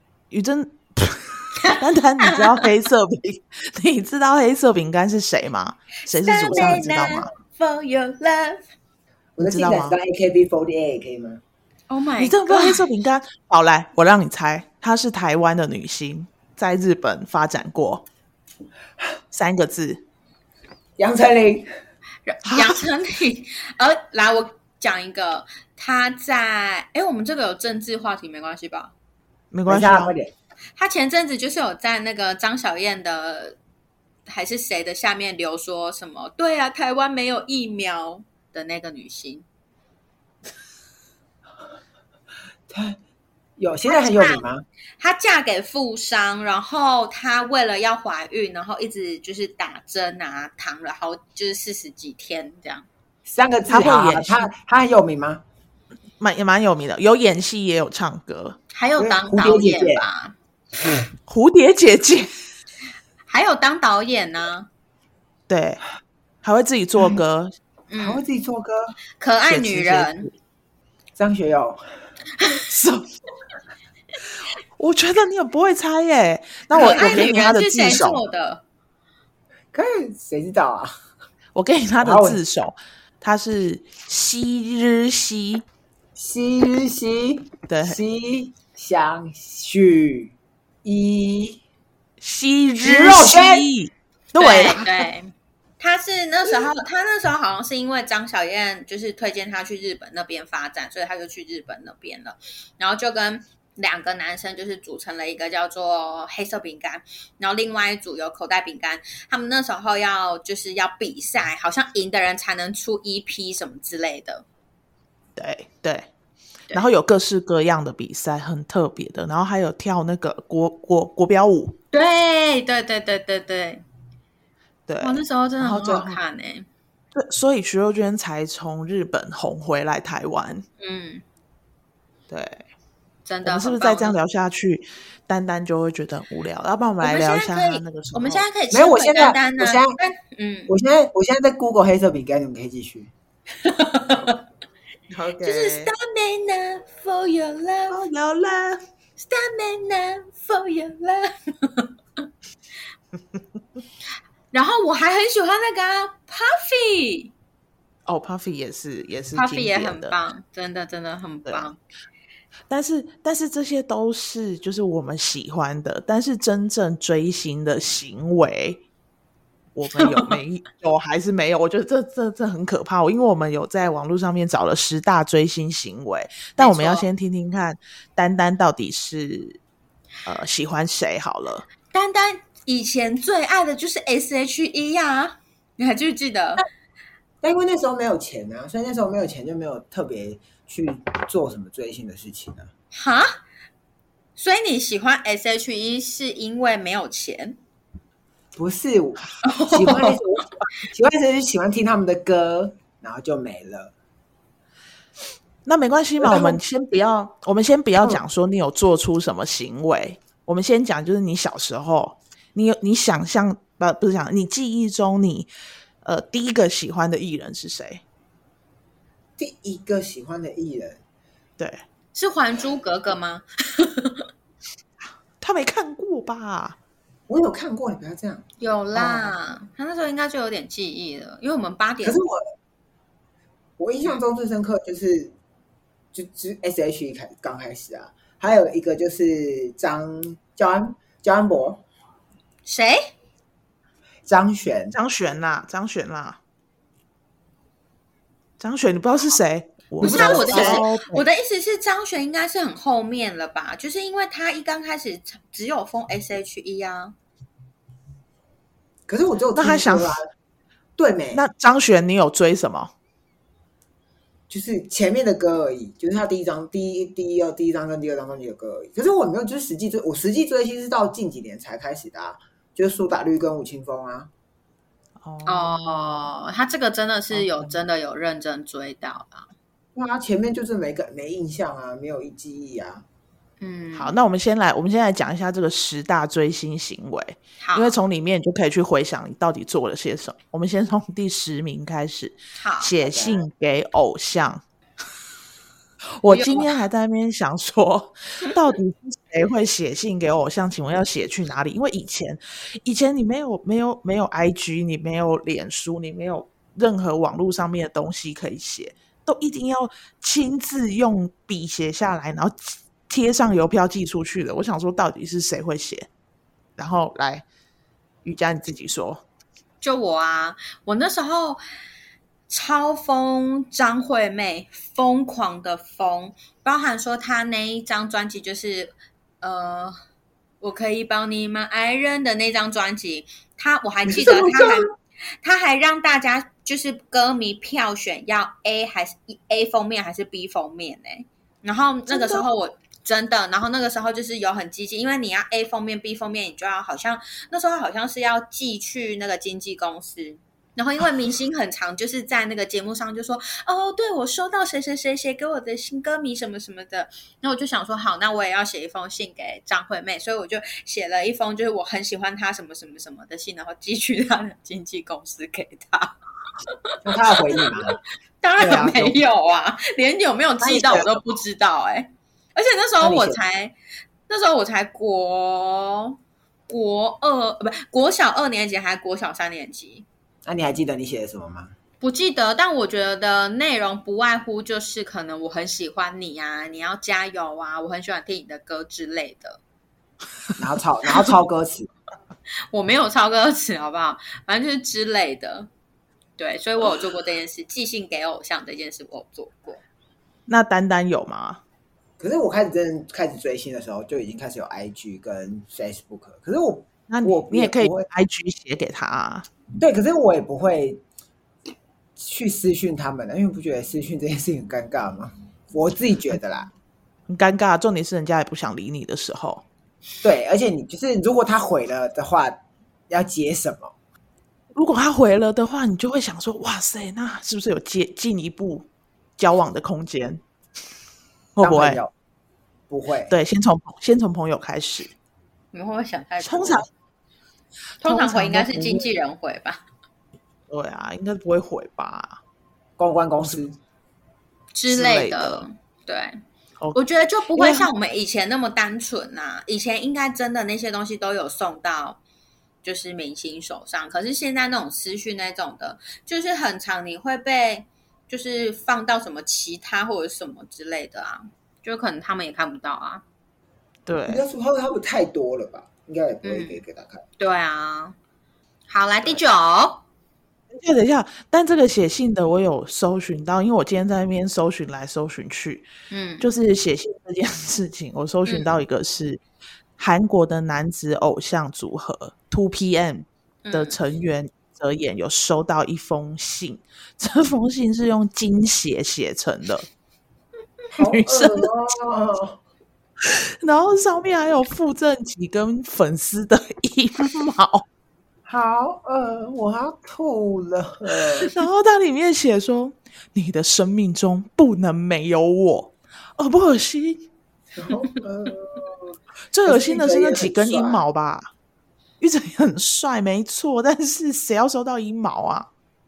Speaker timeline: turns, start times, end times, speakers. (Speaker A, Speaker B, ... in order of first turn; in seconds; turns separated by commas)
Speaker A: 0.3-7.3, Speaker B: 1.6-2.5, Speaker B: 6.1-8.6, Speaker C: 6.5-7.2, Speaker C: 9.4-11.4, Speaker A: 9.4-10.0, Speaker B: 11.9-12.9, Speaker A: 12.2-18.1, Speaker A: 19.3-20.0, Speaker C: 21.0-21.7, Speaker B: 22.3-28.9, Speaker A: 22.4-22.8, Speaker A: 29.5-30.1, Speaker C: 29.7-30.3, Speaker B: 30.8-33.6, Speaker B: 34.3-39.5, Speaker C: 42.7-43.0, Speaker C: 43.6-44.6, Speaker B: 43.9-44.4, Speaker B: 45.0-52.9, Speaker C: 53.3-55.4, Speaker A: 53.7-54.5, Speaker A: 56.2-58.6, Speaker B: 58.7-60.4, Speaker C: 59.0-60.0, Speaker C: 60.8-61.1, Speaker A: 61.3-62.3, Speaker B: 63.3-64.7, Speaker A: 65.5-65.8, Speaker A: 66.4-67.5, Speaker B: 67.9-68.2, Speaker C: 68.0-69.0, Speaker B: 69.2-70.3, Speaker A: 69.5-70.3, Speaker C: 71.2-71.8, Speaker A: 72.7-73.1, Speaker A: 74.8-78.2, Speaker B: 76.7-78.6, Speaker C: 79.7-80.9, Speaker A: 81.5-85.7, Speaker C: 82.0-82.4, Speaker C: 86.2-91.6, Speaker A: 87.7-88.0, Speaker A: 92.2-95.1, Speaker C: 92.8-93.7, Speaker B: 94.4-114.5, Speaker A: 115.4-116.1, Speaker A: 116.7-121.8, Speaker B: 121.9-123.8, Speaker A: 124.9-126.2, Speaker B: 125.0-126.7, Speaker A: 127.1-130.7, Speaker B: 130.8-131.2, Speaker A: 132.3-132.7, Speaker B: 133.3-134.2, Speaker A: 133.4-138.4, Speaker B: 137.0-140.7, Speaker C: 138.7-140.0, Speaker C: 140.7-143.1, Speaker B: 143.6-144.4, Speaker A: 145.1-145.9, Speaker B: 145.4-148.0, Speaker A: 147.9-148.8, Speaker B: 149.2-151.9, Speaker B: 154.5-157.3, Speaker A: 158.1-160.2, Speaker B: 159.3-161.8, Speaker A: 162.7-168.8, Speaker A: 169.8-179.6, Speaker B: 170.0-170.4, Speaker B: 176.6-177.1, Speaker A: 180.2-181.7, Speaker B: 181.9-186.6, Speaker C: 187.4-192.7, Speaker B: 192.9-193.4, Speaker B: 194.4-197.6, Speaker C: 198.6-203.9, Speaker B: 199.4-200.1, Speaker A: 205.7-215.5, Speaker C: 206.2-206.6, Speaker A: 216.0-218.0, Speaker C: 219.4-221.0, Speaker A: 221.6-221.8, Speaker B: 222.1-224.3, Speaker A: 225.4-226.8, Speaker C: 227.3-229.3, Speaker B: 228.6-232.2, Speaker C: 232.0-232.4, Speaker C: 233.8-235.3, Speaker C: 236.1-241.8, Speaker B: 242.7-243.0, Speaker C: 244.3-244.9, Speaker A: 244.9-246.4, Speaker A: 248.6-251.3, Speaker C: 250.0-250.8, Speaker B: 250.0-257.1, Speaker C: 259.1-260.2, Speaker A: 259.5-260.2, Speaker C: 261.0-261.4, Speaker A: 261.3-262.9, Speaker C: 264.5-274.3, Speaker A: 275.2-276.3, Speaker B: 275.5-279.5, Speaker A: 277.3-277.8, Speaker C: 279.9-283.0, Speaker B: 283.6-284.2, Speaker A: 283.9-294.6, Speaker B: 287.6-288.0, Speaker B: 292.6-292.9, Speaker C: 293.0-293.4, Speaker A: 296.2-316.1, Speaker B: 296.3-296.8, Speaker A: 316.8-317.5, Speaker A: 318.2-319.2, Speaker B: 319.8-321.6, Speaker B: 322.5-330.0, Speaker B: 330.6-334.9, Speaker B: 335.4-366.1, Speaker A: 342.1-342.5, Speaker B: 366.7-373.8, Speaker C: 367.0-368.0, Speaker C: 370.6-371.2, Speaker C: 373.0-373.4, Speaker B: 374.3-376.2, Speaker B: 376.7-380.1, Speaker C: 380.4-381.7, Speaker B: 382.0-389.6, Speaker C: 390.6-391.9, Speaker B: 392.7-395.7, Speaker B: 396.4-399.8, Speaker A: 400.5-401.6, Speaker C: 402.2-408.1, Speaker A: 407.1-409.5, Speaker C: 409.8-411.0, Speaker C: 412.2-416.7, Speaker A: 417.3-419.6, Speaker C: 420.2-423.9, Speaker A: 424.7-428.9, Speaker A: 429.4-430.4, Speaker A: 431.6-432.0, Speaker C: 431.6-432.1, Speaker C: 432.9-433.3, Speaker A: 433.3-435.1, Speaker B: 435.7-436.9, Speaker A: 436.4-436.9, Speaker A: 438.0-439.1, Speaker B: 438.0-439.8, Speaker A: 440.7-442.4, Speaker C: 443.0-443.8, Speaker B: 444.7-446.4, Speaker A: 444.9-445.7, Speaker B: 446.9-452.2, Speaker A: 447.6-447.9, Speaker B: 452.8-463.2, Speaker A: 464.1-464.4, Speaker C: 464.3-467.2, Speaker B: 466.4-466.8, Speaker B: 467.4-468.1, Speaker B: 468.9-470.0, Speaker A: 470.7-475.9, Speaker B: 476.1-476.5, Speaker A: 476.4-479.4, Speaker B: 478.5-478.7, Speaker A: 480.0-489.9, Speaker B: 483.6-484.0, Speaker C: 490.9-492.6, Speaker A: 491.0-491.7, Speaker A: 493.2-497.9, Speaker C: 498.5-501.6, Speaker A: 501.4-507.3, Speaker C: 507.7-509.1, Speaker A: 509.5-511.5, Speaker C: 509.7-511.0, Speaker A: 512.2-515.7